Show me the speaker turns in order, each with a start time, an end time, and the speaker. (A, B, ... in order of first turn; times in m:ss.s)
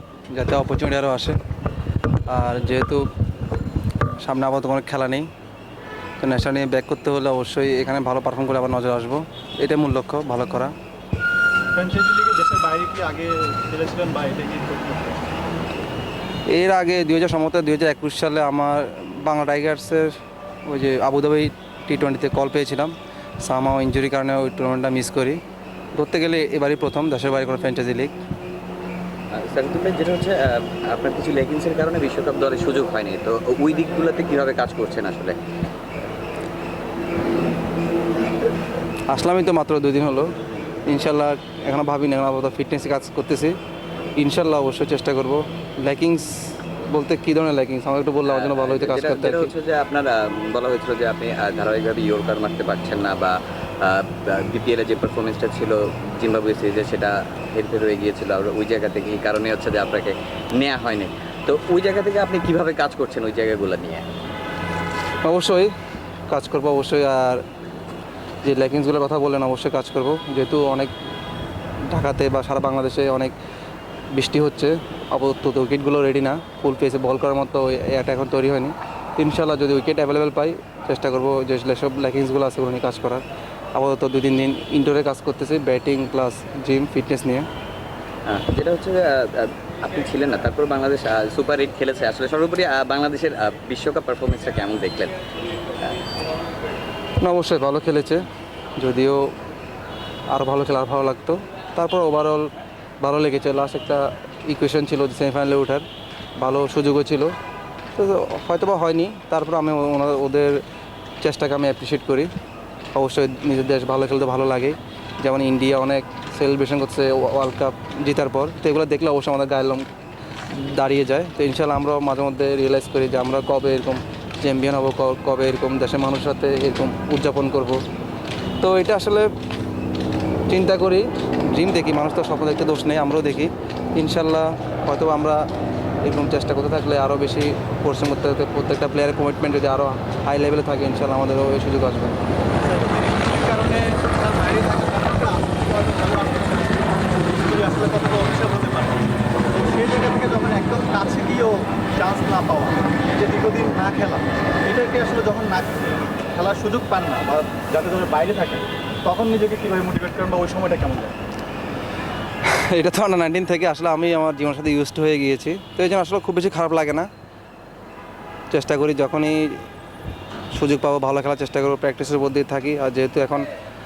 0:00.3-0:01.4 A
0:02.3-0:03.0 A
0:04.2-0:05.3 A
0:06.2-0:10.7 A
0:11.8-0:15.3 B
0:16.5-0:20.1 A
0:20.7-0:25.4 A
0:25.9-0:28.1 A
0:29.3-0:35.4 C
0:39.1-0:40.3 A
0:40.9-0:43.6 A
0:44.2-0:49.5 A
0:48.2-1:04.0 C
1:05.2-1:05.7 A
1:06.3-1:07.4 A
1:08.4-1:10.9 A
1:11.9-1:13.3 A
1:14.1-1:23.2 A
1:23.7-1:27.4 A
1:28.3-1:35.1 C
1:37.2-1:38.2 A
1:38.8-1:39.2 A
1:40.3-1:42.5 A
1:43.0-1:45.8 A
1:46.4-1:47.3 A
1:48.0-1:50.6 A
1:51.2-1:52.3 A
1:52.9-1:59.8 A
2:00.5-2:07.8 A
2:08.6-2:09.3 A
2:10.5-2:15.4 A
2:16.0-2:22.2 A
2:22.6-2:41.2 B
2:42.4-2:47.1 A
2:48.5-2:49.6 A
2:50.5-2:53.5 A